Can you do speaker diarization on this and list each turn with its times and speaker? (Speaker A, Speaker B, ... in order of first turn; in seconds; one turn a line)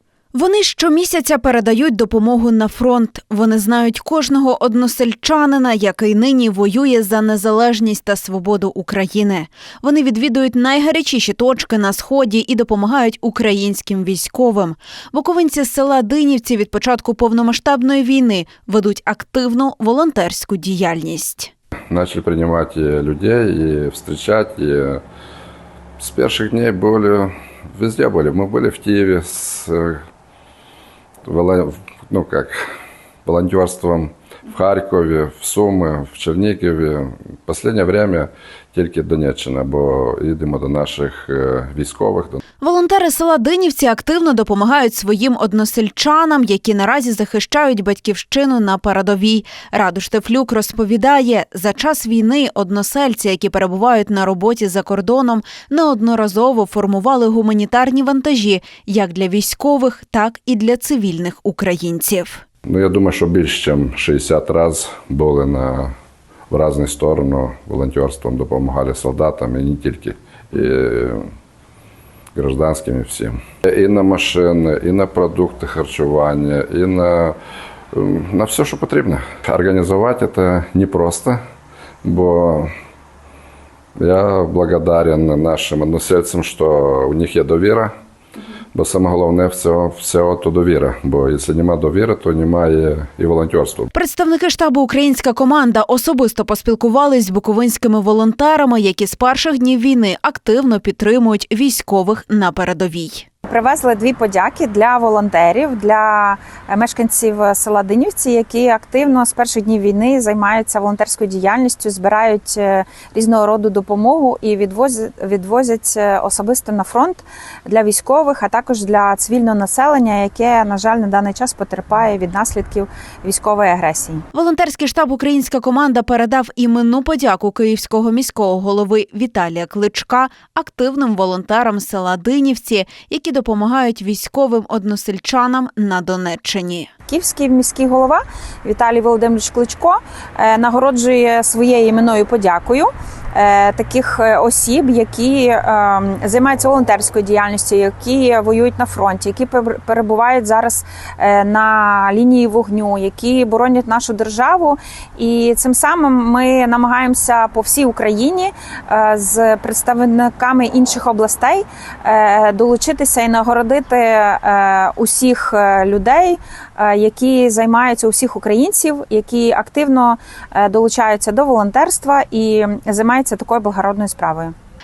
Speaker A: 0.3-21.5
Speaker B: 21.9-25.0
Speaker B: 26.0-30.0
Speaker B: 31.2-32.7
Speaker B: 33.2-42.4
Speaker A: 42.6-62.4
Speaker B: 62.6-65.9
Speaker B: 66.5-71.3
Speaker B: 72.3-77.4
Speaker B: 77.9-81.4
Speaker B: 82.0-82.7
Speaker B: 84.0-87.9
Speaker B: 88.7-93.9
Speaker A: 93.9-103.3
Speaker C: 103.5-124.2
Speaker A: 124.3-136.9
Speaker C: 137.1-174.5